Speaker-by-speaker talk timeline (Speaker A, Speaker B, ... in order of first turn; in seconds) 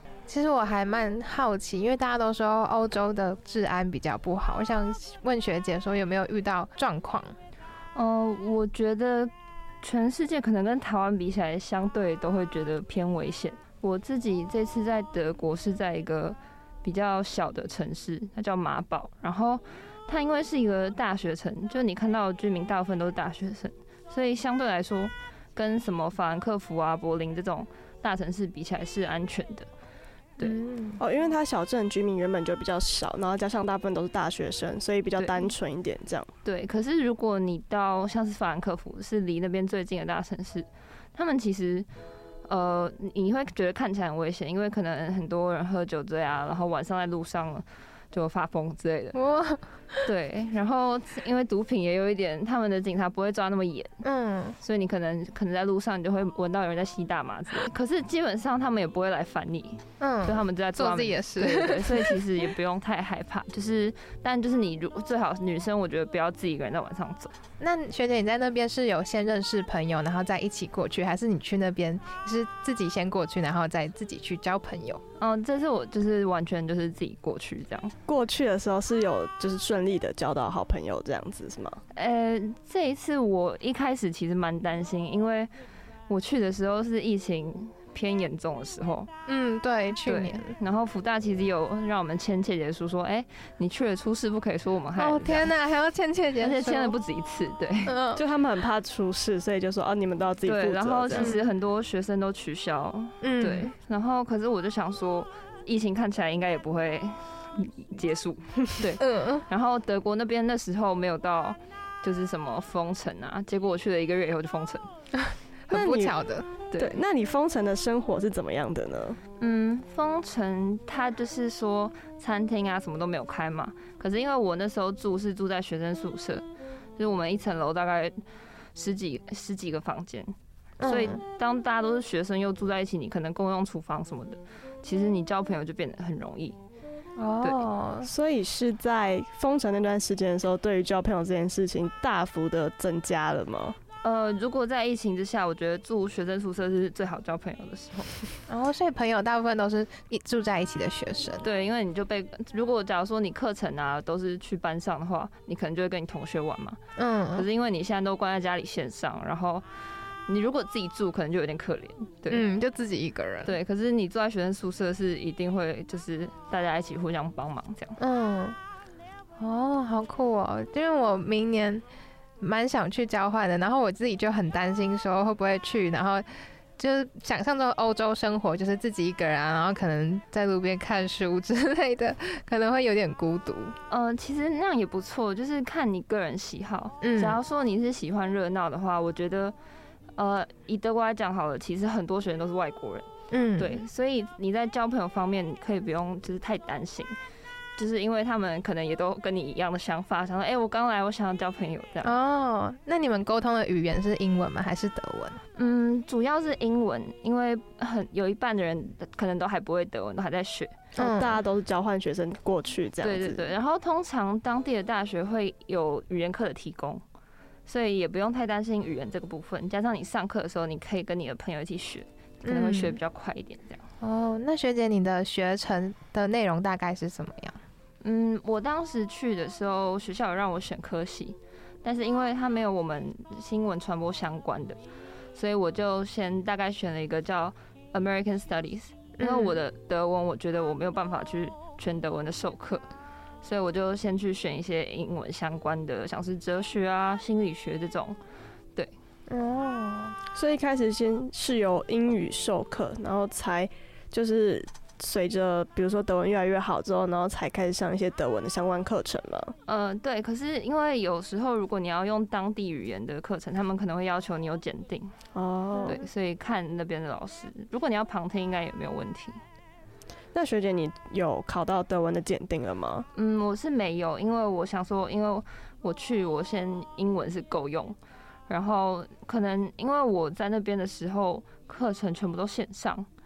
Speaker A: 0.3-7.3, 30.4-31.0, 49.1-50.0, 54.0-54.6, 60.0-62.2, 67.6-75.0, 89.3-90.5, 95.0-96.9, 97.8-98.2, 101.1-101.4, 103.2-103.7, 109.0-109.4, 115.2-116.5, 130.8-131.2, 137.2-138.1, 148.5-151.4, 157.0-157.4, 162.3-163.5, 168.0-168.6, 169.4-171.8, 172.4-176.3, 176.8-183.8, 187.0-187.4, 193.3-193.8, 202.0-205.4, 210.9-211.4, 222.4-223.0, 224.0-227.6, 239.2-239.6, 249.3-250.2, 265.8-266.0
Speaker B: 7.9-29.7, 35.2-35.5, 36.4-41.9, 42.5-49.2, 50.0-54.0, 54.6-67.3, 75.2-78.0, 81.9-85.5, 86.1-89.1, 90.0-95.5, 96.4-98.0, 100.4-114.8, 116.7-117.0, 119.4-126.4, 127.0-128.2, 128.7-136.6, 144.0-148.2, 151.4-156.8, 157.3-159.6, 160.3-162.5, 163.4-168.0, 183.9-189.5, 190.2-197.2, 197.8-202.1, 205.6-210.9, 213.0-217.0, 217.7-223.8, 228.0-234.8, 235.3-242.8, 243.4-248.2, 259.7-265.1, 265.9-269.4, 273.1-278.0, 278.5-283.1
Speaker C: 31.0-36.3, 78.1-81.8, 98.2-101.3, 115.7-116.1, 116.8-119.2, 138.0-143.8, 211.0-213.5, 250.3-259.5, 265.3-266.0, 270.3-273.1